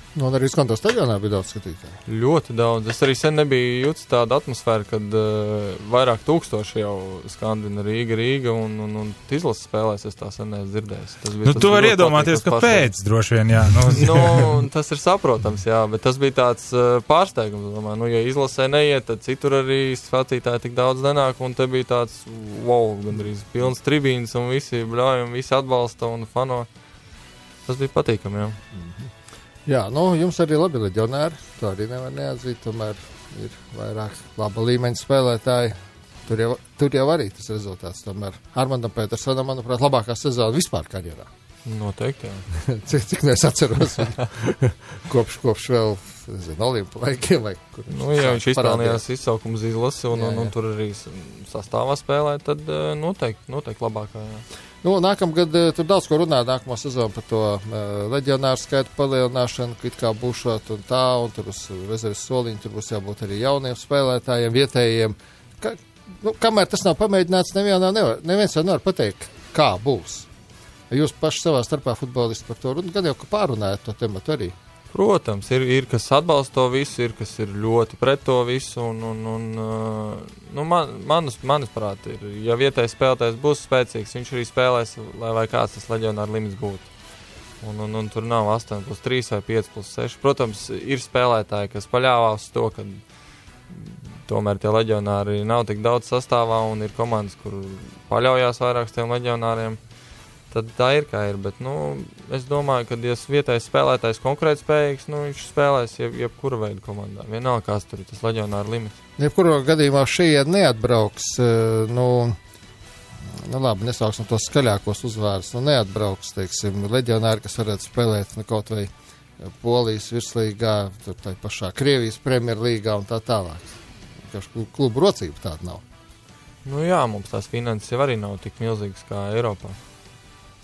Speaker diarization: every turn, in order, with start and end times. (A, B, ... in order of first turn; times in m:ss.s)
0:00.1-0:02.0 A
0:02.0-0:12.9 B
0:11.4-0:14.4 C
0:13.9-0:26.7 B
0:27.6-0:28.6 B
0:29.7-0:41.3 A
0:41.6-0:42.4 B
0:42.6-0:49.0 A
0:47.9-0:54.4 B
0:50.1-0:50.5 A
0:54.8-1:10.3 A
1:10.9-1:14.5 A
1:14.9-1:26.9 B
1:27.6-1:33.0 B
1:33.7-1:39.8 B
1:40.5-1:49.0 B
1:49.2-1:52.4 A
1:53.4-1:58.9 A
1:59.4-2:03.7 A
2:04.3-2:05.8 A
2:06.6-2:09.8 B